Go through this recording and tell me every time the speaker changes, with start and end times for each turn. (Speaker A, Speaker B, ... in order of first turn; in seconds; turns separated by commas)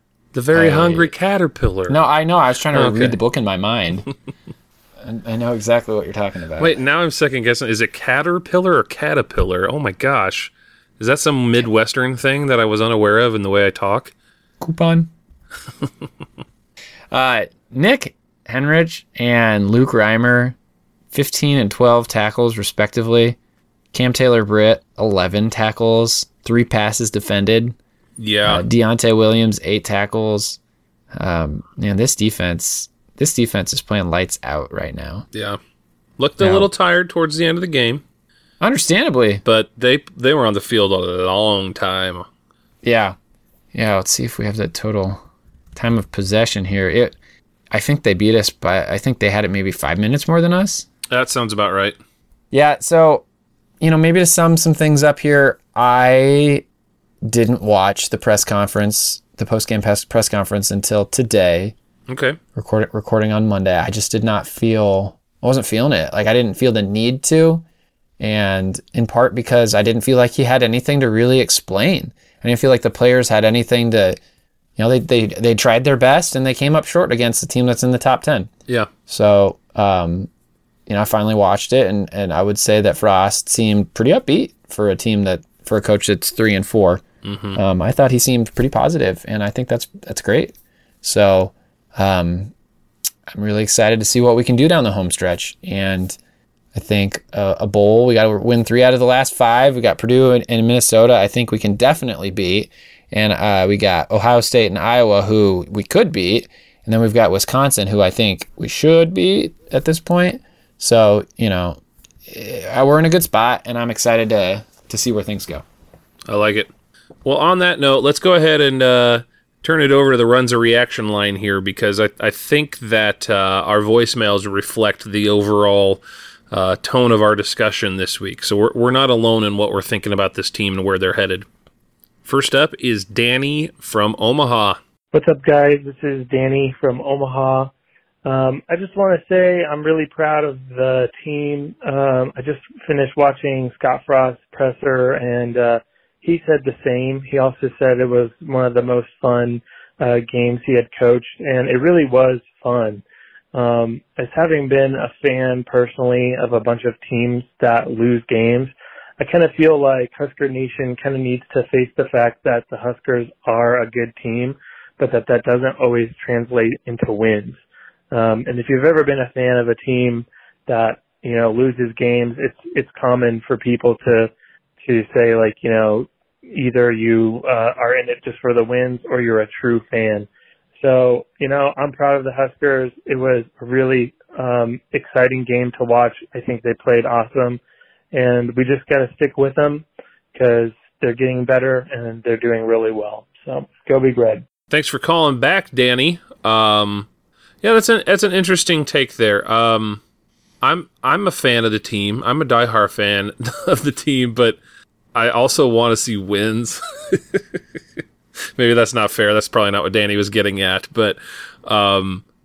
Speaker A: 0.3-1.9, Speaker B: 0.5-1.1, Speaker B: 1.9-4.1, Speaker A: 2.7-3.1, Speaker B: 5.0-6.8, Speaker A: 6.6-14.1, Speaker B: 14.6-15.1, Speaker B: 17.1-20.6, Speaker B: 21.1-23.4, Speaker B: 23.9-27.8, Speaker A: 28.2-28.6, Speaker B: 28.4-30.6, Speaker B: 31.1-35.2, Speaker A: 35.3-35.6, Speaker A: 36.2-38.0, Speaker B: 36.4-36.7, Speaker B: 38.6-39.4, Speaker A: 39.4-42.3, Speaker B: 42.8-43.1, Speaker B: 43.7-45.2, Speaker B: 45.7-47.2, Speaker B: 47.7-50.9, Speaker A: 51.1-52.0, Speaker B: 52.5-53.2, Speaker B: 53.8-56.6, Speaker B: 57.2-61.7, Speaker A: 62.1-62.4, Speaker B: 62.5-67.6, Speaker B: 68.2-74.2, Speaker B: 74.8-78.5, Speaker B: 79.1-80.3, Speaker B: 80.9-87.0, Speaker A: 87.2-87.6, Speaker B: 87.5-92.5, Speaker B: 93.3-96.2, Speaker B: 96.7-115.6, Speaker A: 116.3-116.7, Speaker A: 117.2-131.4, Speaker A: 132.2-134.8, Speaker C: 135.1-137.7, Speaker C: 138.2-167.6, Speaker C: 168.1-174.3, Speaker C: 174.8-187.6, Speaker C: 188.1-194.4, Speaker A: 194.7-197.1, Speaker A: 197.6-200.0, Speaker A: 200.6-204.6, Speaker A: 205.1-207.4, Speaker A: 208.6-212.2